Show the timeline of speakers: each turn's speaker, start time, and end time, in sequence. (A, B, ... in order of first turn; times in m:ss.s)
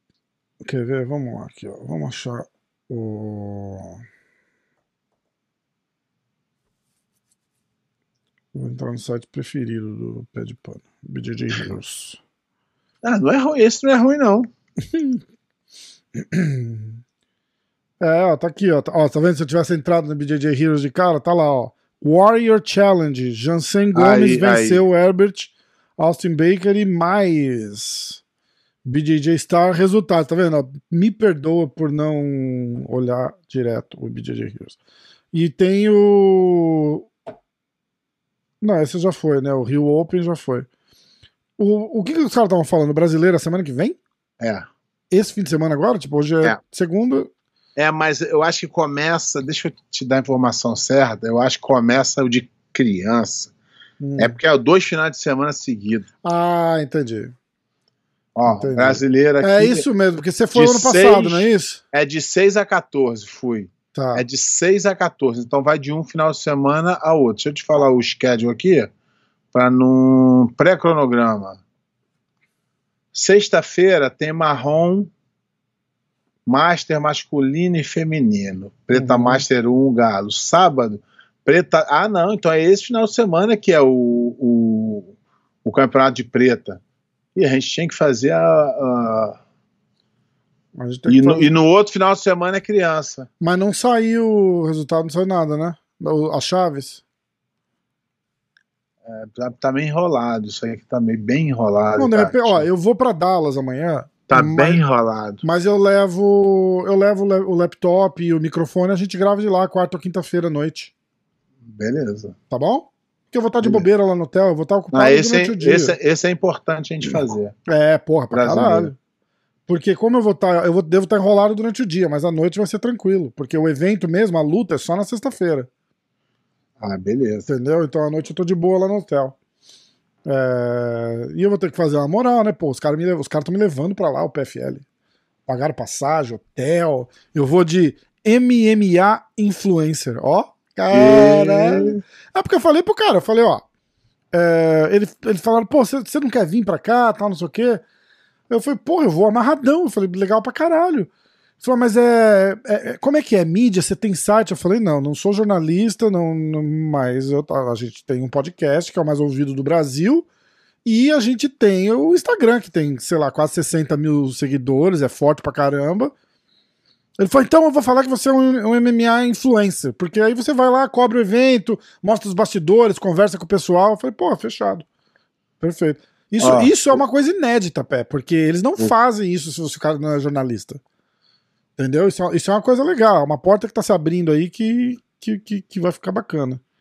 0:00.6-0:04.0 A
0:08.5-0:12.2 A
0:13.0-0:14.5 B
0:14.9-0:15.2 A
0:16.2-0:17.0 A
0:18.0-0:28.2 A
0:23.9-0:24.8 B
0:28.8-0:34.8 A
0:35.3-0:37.1 A
0:38.6-0:40.7 A
0:41.6-0:44.0 A
0:44.4-0:44.7 B
0:45.1-0:47.3 A
0:47.8-0:53.5 B
0:54.0-0:54.4 A
0:54.2-0:56.1 B
0:56.2-0:57.3 A
0:58.4-0:59.8 B
0:58.4-1:01.8 A
1:00.5-1:08.9 B
1:03.9-1:04.2 A
1:09.5-1:11.6 B
1:13.1-1:15.1 B
1:16.5-1:26.8 B
1:18.9-1:19.4 A
1:27.3-1:29.4 B
1:30.8-1:31.5 A
1:31.1-1:33.3 B
1:33.4-1:37.0 A
1:39.0-1:42.6 B
1:42.0-1:44.8 A
1:44.3-1:45.4 B
1:45.4-1:50.9 A
1:51.6-1:52.3 B
1:52.5-1:55.9 A
1:54.9-1:57.5 B
1:57.7-1:59.0 A
1:58.3-1:58.9 B
1:59.7-2:05.7 A
2:06.8-2:07.5 B
2:07.5-2:09.4 A
2:10.2-2:14.8 A
2:15.5-2:23.6 A
2:20.9-2:22.0 B
2:24.3-2:27.8 A
2:28.5-2:31.1 A
2:31.6-2:40.2 A
2:40.8-2:46.1 A
2:47.2-2:54.9 A
2:55.6-3:00.8 A
2:56.4-2:57.0 B
3:01.8-3:06.6 A